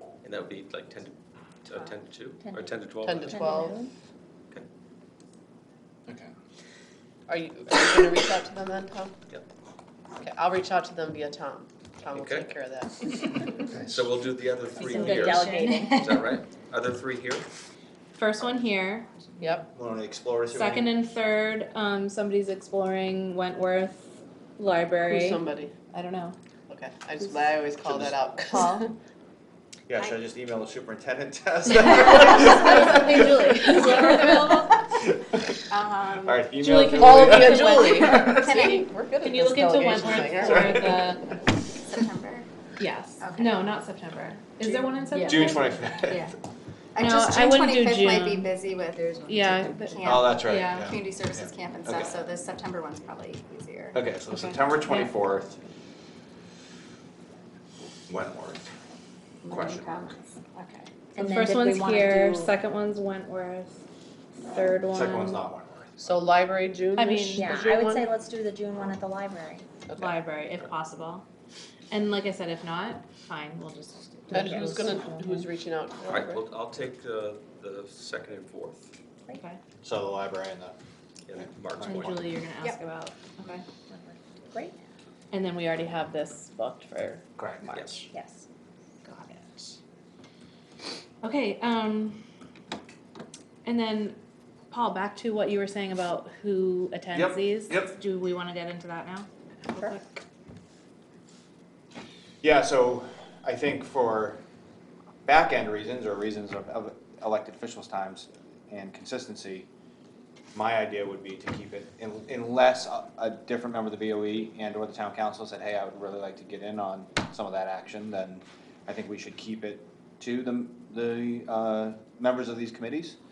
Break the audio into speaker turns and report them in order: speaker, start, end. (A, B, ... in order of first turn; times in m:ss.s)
0:00.2-0:03.6 A
0:01.8-0:03.9 B
0:03.0-0:03.8 C
0:06.1-0:06.3 D
0:07.3-0:09.1 C
0:10.2-0:13.6 C
0:12.1-0:12.5 A
0:13.7-0:14.0 D
0:13.7-0:17.4 A
0:14.8-0:16.1 B
0:15.5-0:15.9 E
0:15.6-0:16.1 F
0:18.1-0:19.6 F
0:19.4-0:19.7 C
0:19.7-0:20.9 D
0:20.5-0:26.4 F
0:25.0-0:25.8 C
0:26.7-0:29.0 C
0:27.9-0:28.2 D
0:28.4-0:28.9 F
0:29.9-0:38.6 D
0:32.5-0:34.8 F
0:35.7-0:36.5 E
0:36.6-0:38.3 F
0:36.9-0:41.0 C
0:37.4-0:38.9 E
0:39.2-0:41.3 F
0:40.6-0:41.1 D
0:41.6-0:42.5 E
0:42.8-0:45.8 F
0:43.2-0:43.8 E
0:44.7-0:46.3 E
0:45.2-0:46.3 D
0:46.9-0:54.0 E
0:47.0-0:48.5 F
0:49.3-0:50.8 F
0:50.0-0:52.2 D
0:53.9-0:55.6 D
0:54.4-0:55.1 F
0:58.1-0:58.7 D
0:59.4-1:00.9 E
0:59.5-1:00.1 D
1:01.2-1:02.5 B
1:01.2-1:03.8 F
1:04.4-1:05.4 F
1:04.9-1:06.2 D
1:06.0-1:08.1 C
1:07.0-1:07.5 F
1:07.4-1:09.7 B
1:09.9-1:10.2 C
1:10.0-1:11.3 F
1:11.9-1:15.5 F
1:14.3-1:16.4 C
1:14.3-1:14.8 B
1:16.1-1:18.9 A
1:19.3-1:19.6 F
1:19.8-1:20.8 D
1:21.3-1:22.2 A
1:21.4-1:22.3 D
1:21.8-1:23.7 F
1:23.7-1:24.9 B
1:25.3-1:28.1 F
1:27.4-1:27.7 D
1:27.7-1:28.0 A
1:28.1-1:28.5 B
1:29.0-1:29.7 F
1:31.2-1:32.2 F
1:33.6-1:34.2 F
1:34.7-1:40.2 F
1:37.1-1:37.9 D
1:42.4-1:44.4 D
1:45.3-1:49.7 D
1:50.5-2:03.2 D